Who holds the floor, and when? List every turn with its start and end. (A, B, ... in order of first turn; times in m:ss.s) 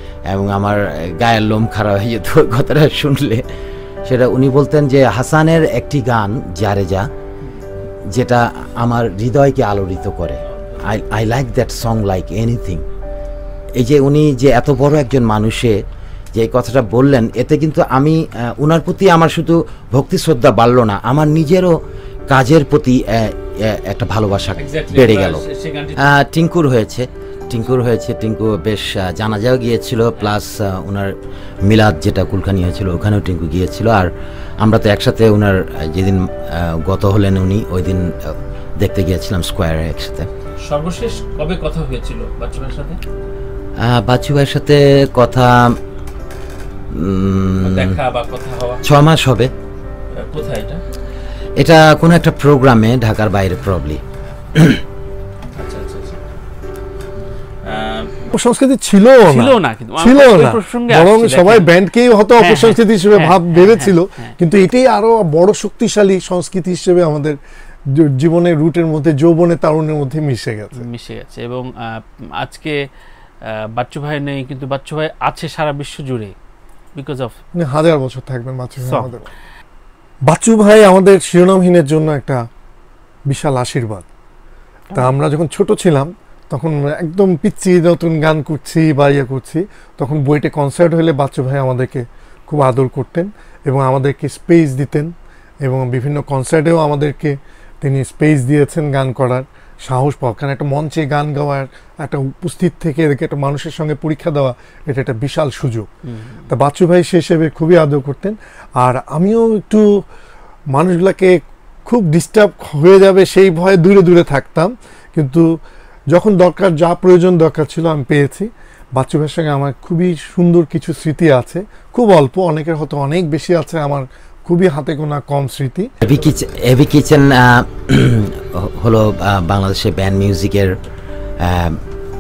0:00.3-0:03.4 A
0:04.0-0:07.1 A
0:08.1-0:12.8 A
0:10.5-0:11.0 B
0:13.8-0:15.8 A
0:16.3-0:21.7 A
0:22.3-0:25.4 A
0:24.6-0:26.1 B
0:26.0-0:31.1 A
0:31.6-0:40.3 A
0:40.6-0:43.0 B
0:43.8-0:45.8 A
0:46.9-0:48.0 A
0:47.6-0:48.8 B
0:48.8-0:49.5 A
0:50.1-0:50.8 B
0:51.6-0:54.0 A
0:55.6-0:56.2 B
0:57.6-0:58.4 B
0:58.3-1:07.4 C
0:59.2-1:01.7 B
1:02.4-1:04.3 B
1:07.9-1:10.8 C
1:10.8-1:12.8 B
1:13.7-1:16.3 B
1:17.0-1:17.4 B
1:17.6-1:19.3 C
1:18.8-1:19.1 B
1:20.3-1:22.4 C
1:23.3-1:24.1 C
1:24.9-1:35.1 C
1:35.6-1:45.9 C
1:46.1-1:46.4 B
1:46.5-1:49.9 C
1:50.7-1:55.4 C
1:56.1-2:05.9 C
2:06.0-2:10.7 A
2:11.4-2:11.8 A